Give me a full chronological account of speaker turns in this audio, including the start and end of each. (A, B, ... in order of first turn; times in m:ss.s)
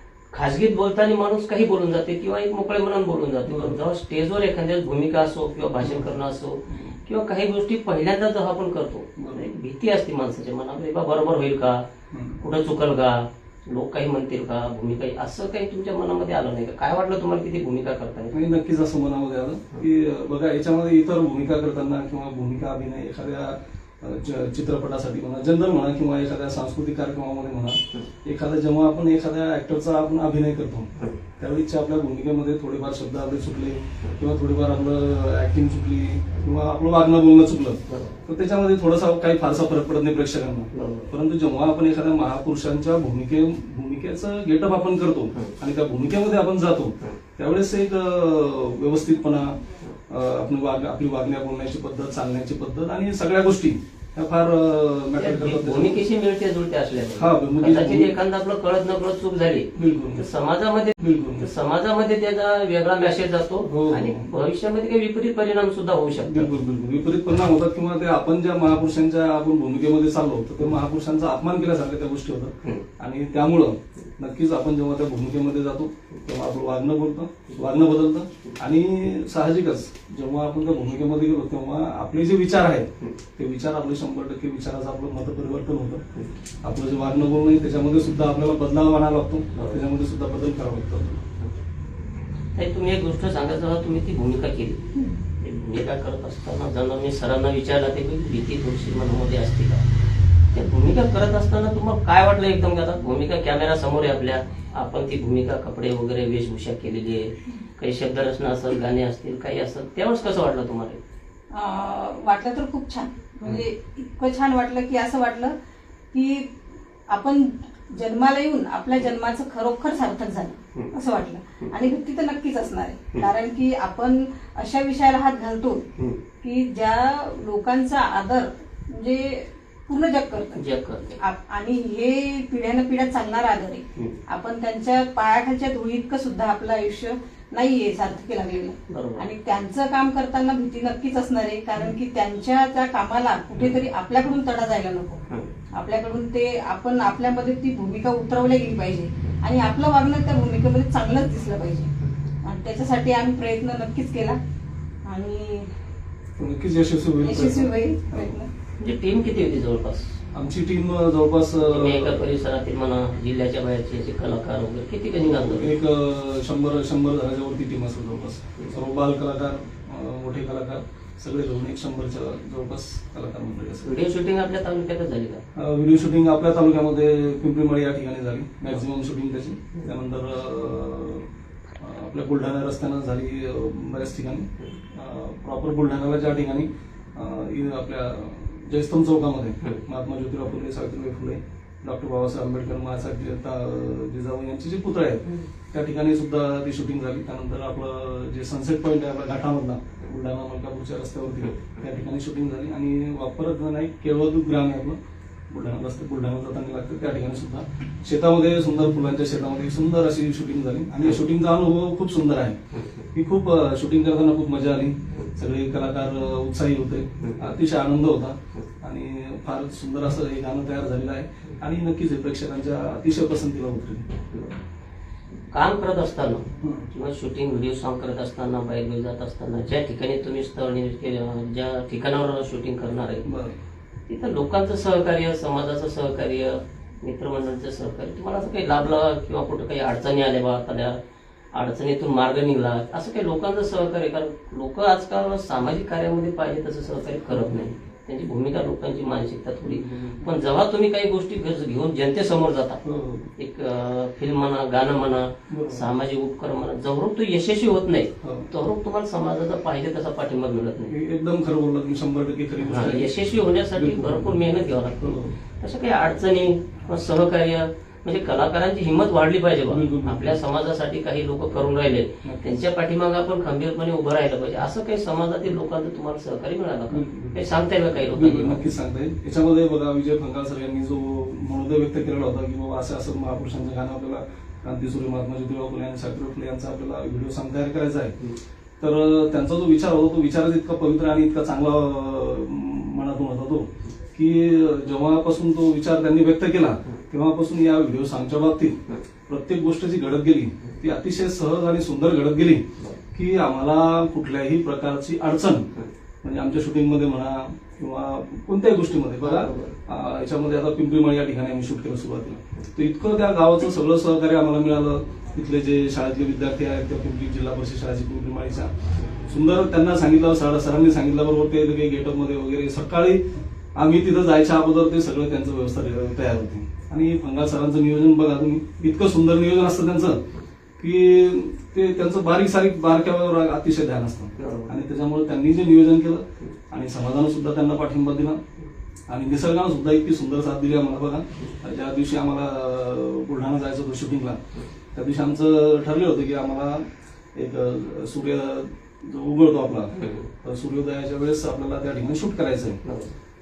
0:00.3-0:11.9 A
0:03.5-0:03.8 B
0:06.7-0:07.0 B
0:09.2-0:09.5 B
0:12.1-0:12.4 B
0:12.4-0:18.4 A
0:18.3-0:56.0 B
0:37.9-0:38.2 A
0:40.7-0:41.1 A
0:55.2-1:06.5 A
0:57.2-0:58.1 B
0:59.8-1:00.2 B
1:01.0-1:01.5 B
1:03.7-1:04.3 B
1:06.2-1:26.0 B
1:26.6-1:31.3 B
1:29.5-1:29.8 A
1:32.6-1:34.8 A
1:35.4-1:39.8 A
1:40.5-1:51.0 A
1:51.5-1:55.6 C
1:56.1-1:56.6 C
1:57.1-2:05.9 C
2:06.4-2:10.6 C
2:10.6-2:11.2 A
2:11.2-2:31.9 C
2:18.9-2:19.3 A
2:32.4-2:34.4 C
2:35.0-2:35.7 C
2:36.4-2:38.3 B
2:37.2-2:38.5 C
2:38.8-2:40.2 A
2:40.3-2:42.2 B
2:41.6-2:45.7 A
2:45.2-2:53.9 B
2:53.8-2:55.4 A
2:55.6-3:01.3 B
3:01.8-3:25.0 B
3:25.5-3:32.6 B
3:33.2-3:44.1 B
3:45.5-3:53.3 A
3:46.6-3:46.9 B
3:53.3-3:53.6 B
3:54.1-4:01.0 A
4:01.5-4:12.8 A
4:07.3-4:07.7 B
4:09.7-4:10.3 B
4:12.8-4:13.3 B
4:13.4-4:20.9 A
4:15.5-4:15.9 B
4:18.2-4:18.5 B
4:20.9-4:23.1 B
4:22.6-4:25.1 A
4:23.8-4:24.4 B
4:25.0-4:25.3 B
4:25.6-4:38.6 A
4:29.7-4:30.4 B
4:32.2-4:32.6 B
4:36.9-4:37.4 B
4:38.0-4:48.2 B
4:48.8-5:05.7 B
5:06.2-5:23.2 B
5:09.2-5:09.8 A
5:23.8-5:30.2 B
5:30.8-5:38.4 B
5:34.4-5:34.7 A
5:39.1-5:44.4 B
5:44.9-5:52.8 B
5:50.0-5:50.3 A
5:52.8-5:53.2 A